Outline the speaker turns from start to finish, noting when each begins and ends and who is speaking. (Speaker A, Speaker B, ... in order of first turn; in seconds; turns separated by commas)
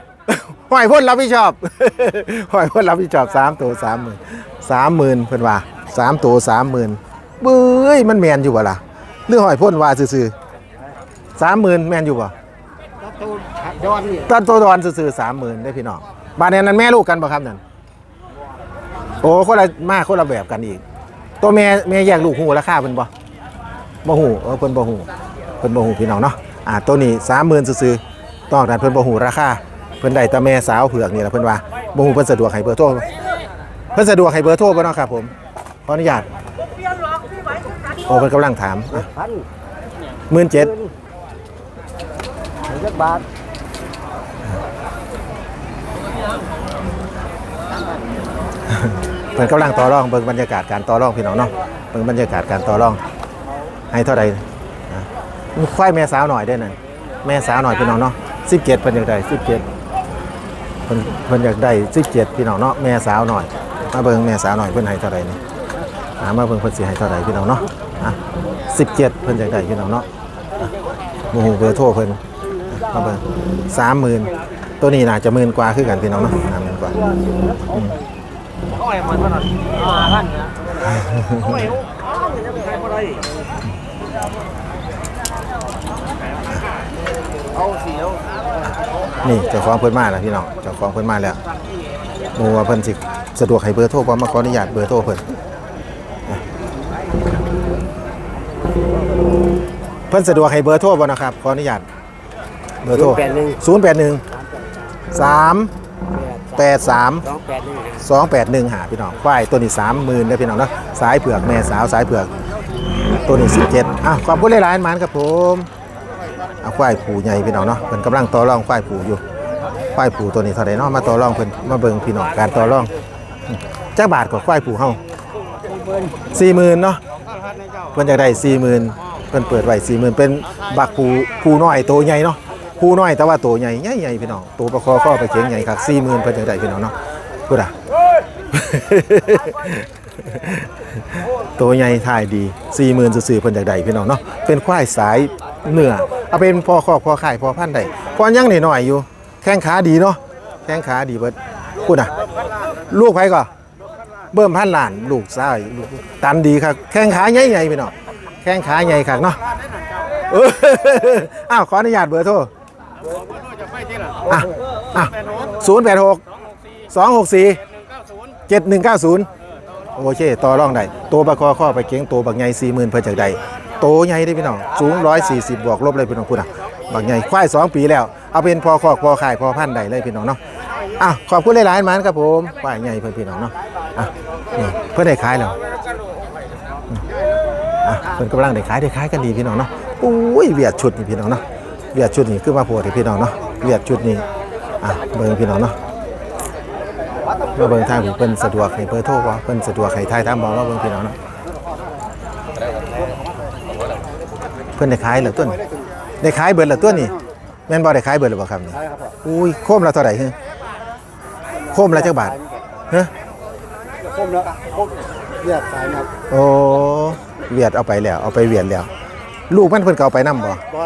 Speaker A: 0.3-10.3, Speaker A: 11.4-12.3, Speaker B: 13.2-14.2, Speaker A: 14.1-17.6, Speaker A: 19.2-20.8, Speaker A: 21.4-23.1, Speaker A: 24.0-25.1, Speaker A: 25.6-33.1, Speaker A: 33.9-35.3, Speaker A: 35.9-36.3, Speaker A: 38.0-39.1, Speaker A: 40.3-40.8, Speaker B: 42.7-43.2, Speaker A: 48.7-53.0, Speaker A: 53.9-59.6, Speaker A: 60.9-65.4, Speaker A: 66.2-70.0, Speaker A: 71.3-72.2, Speaker A: 72.7-77.0, Speaker A: 77.7-78.0, Speaker A: 80.8-81.7, Speaker A: 89.2-91.4, Speaker A: 92.3-95.2, Speaker A: 100.1-101.9, Speaker A: 102.8-104.2, Speaker B: 103.1-103.5, Speaker A: 105.1-105.7, Speaker A: 106.5-107.4, Speaker B: 107.4-107.9, Speaker A: 108.0-112.3, Speaker A: 113.2-115.7, Speaker A: 116.6-119.2, Speaker A: 119.9-122.9, Speaker A: 123.5-125.0, Speaker A: 126.3-127.0, Speaker A: 127.9-136.9, Speaker A: 137.5-137.7, Speaker A: 138.5-152.1, Speaker A: 152.9-153.5, Speaker A: 154.3-159.4, Speaker A: 160.3-162.5, Speaker A: 164.3-166.2, Speaker A: 166.9-167.6, Speaker A: 168.5-169.3, Speaker A: 169.9-180.4, Speaker A: 181.0-185.6, Speaker A: 187.8-191.4, Speaker A: 191.9-194.2, Speaker A: 194.8-195.8, Speaker A: 197.5-201.2, Speaker A: 204.8-205.6, Speaker A: 206.2-207.1, Speaker A: 207.7-210.3, Speaker A: 211.7-212.4, Speaker B: 214.2-214.5, Speaker B: 215.4-216.1, Speaker A: 216.3-218.9, Speaker A: 219.5-220.6